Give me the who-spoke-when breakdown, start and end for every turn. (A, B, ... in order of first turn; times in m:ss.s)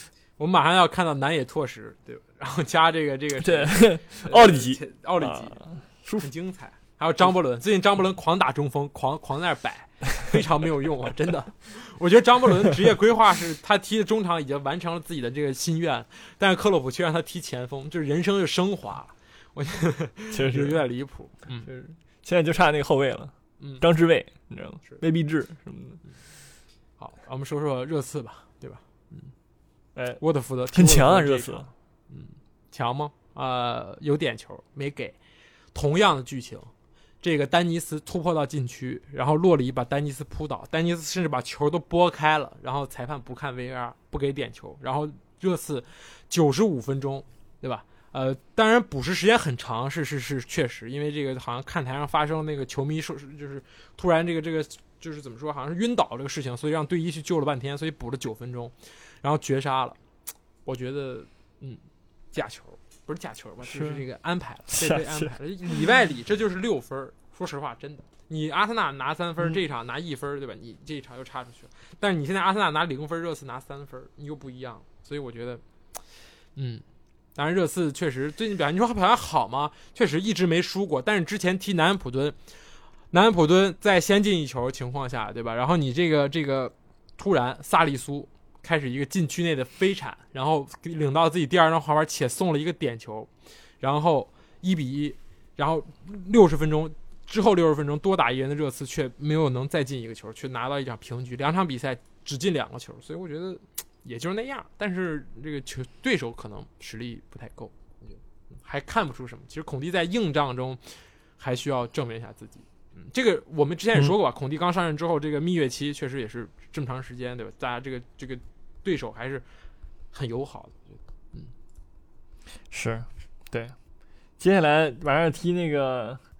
0:00.4-0:21.7 A
0:03.4-0:06.3 B
0:20.3-0:20.8 B
0:21.6-0:26.0 B
0:27.0-0:29.3 A
0:30.0-0:31.7 B
0:30.2-0:35.2 A
0:35.7-1:00.0 A
1:00.6-1:01.8 A
1:02.3-1:15.6 A
1:03.6-1:04.0 B
1:04.7-1:05.3 B
1:16.6-1:16.8 A
1:17.4-1:22.4 A
1:23.1-1:33.3 A
1:33.8-1:59.5 A
2:00.1-2:01.5 A
2:02.7-2:03.8 B
2:04.4-2:06.2 B